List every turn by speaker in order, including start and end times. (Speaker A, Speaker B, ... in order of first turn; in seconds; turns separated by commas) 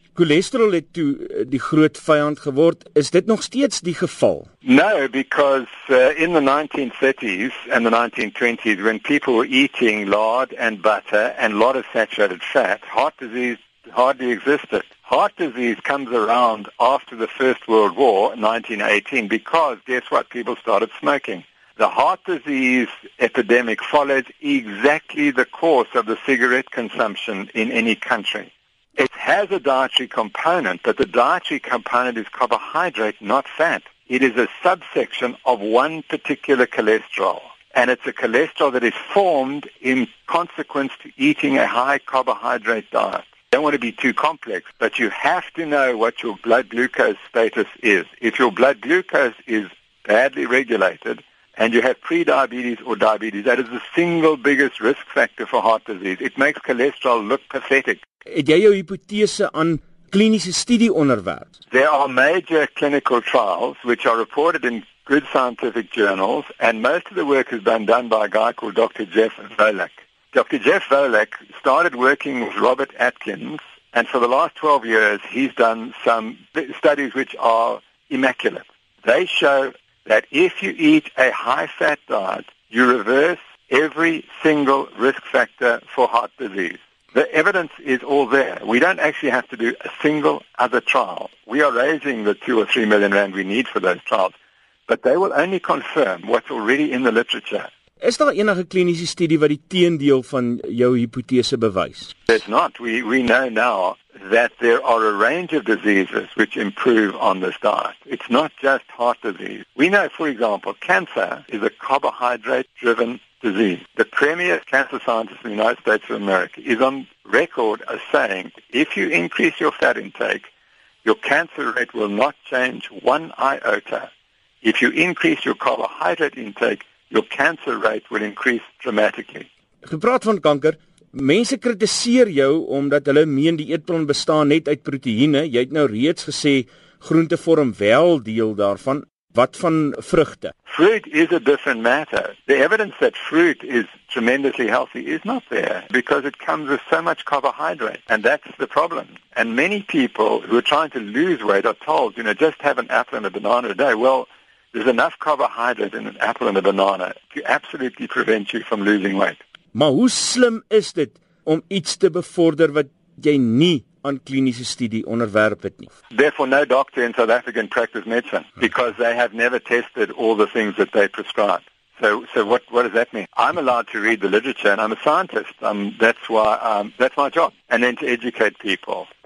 Speaker A: 0.1-4.5, Speaker B: 4.6-58.0, Speaker A: 58.3-61.5, Speaker B: 61.7-94.3, Speaker B: 94.9-97.7, Speaker A: 98.0-102.1, Speaker B: 102.3-120.5, Speaker B: 121.0-124.1, Speaker B: 124.6-129.5, Speaker A: 129.8-140.5, Speaker B: 140.7-159.4, Speaker A: 159.7-165.9, Speaker B: 166.1-179.1